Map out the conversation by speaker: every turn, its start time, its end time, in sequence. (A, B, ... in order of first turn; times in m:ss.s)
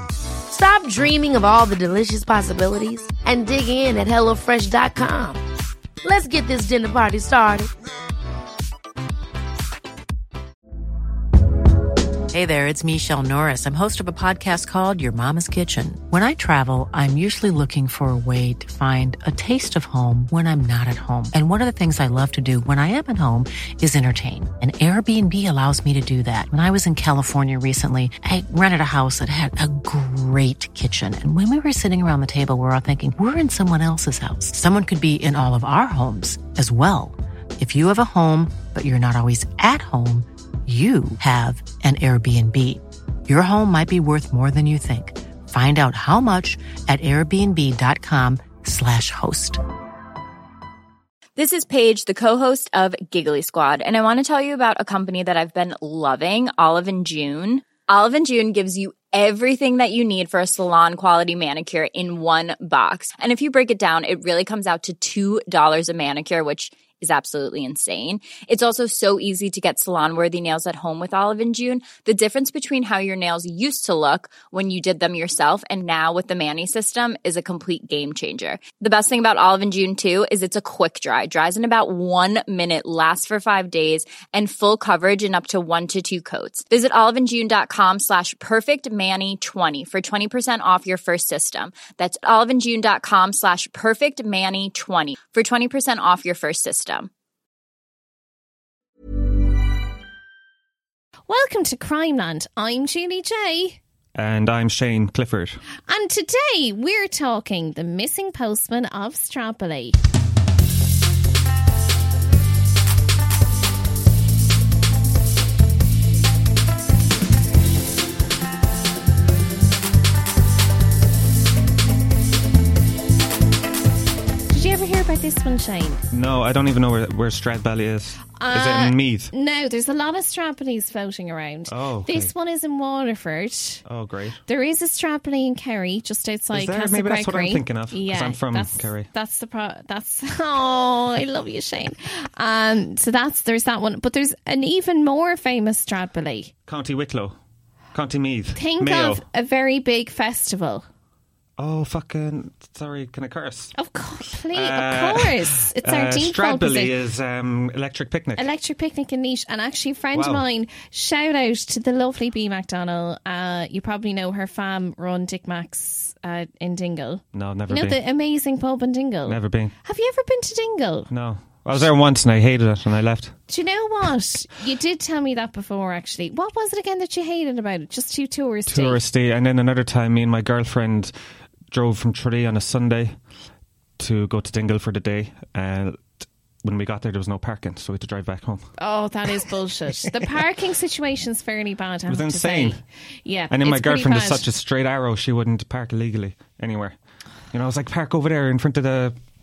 0:00.5-0:05.4 A
0:06.0-0:07.7 A
0:12.3-0:49.6 B
0:51.4-1:37.1 C
1:41.3-1:43.8 D
1:44.2-1:45.6 E
1:45.9-1:50.0 D
2:04.5-2:06.0 D
2:06.1-2:09.3 E
2:08.4-2:13.8 D
2:11.7-2:12.3 E
2:13.9-2:14.4 E
2:14.5-2:26.5 D
2:16.5-2:19.1 E
2:26.7-2:27.4 E
2:27.9-2:29.2 E
2:28.6-2:30.8 D
2:31.6-2:33.7 E
2:33.8-2:36.9 D
2:34.5-2:38.5 E
2:38.4-2:51.1 D
2:40.1-2:40.4 E
2:47.3-2:48.0 E
2:49.3-2:49.7 E
2:51.1-2:53.4 E
2:53.5-2:59.0 D
2:58.7-3:01.1 E
3:01.7-3:03.2 E
3:04.0-3:08.7 E
3:08.8-3:14.4 D
3:12.1-3:12.8 E
3:13.5-3:17.0 E
3:17.5-3:19.2 E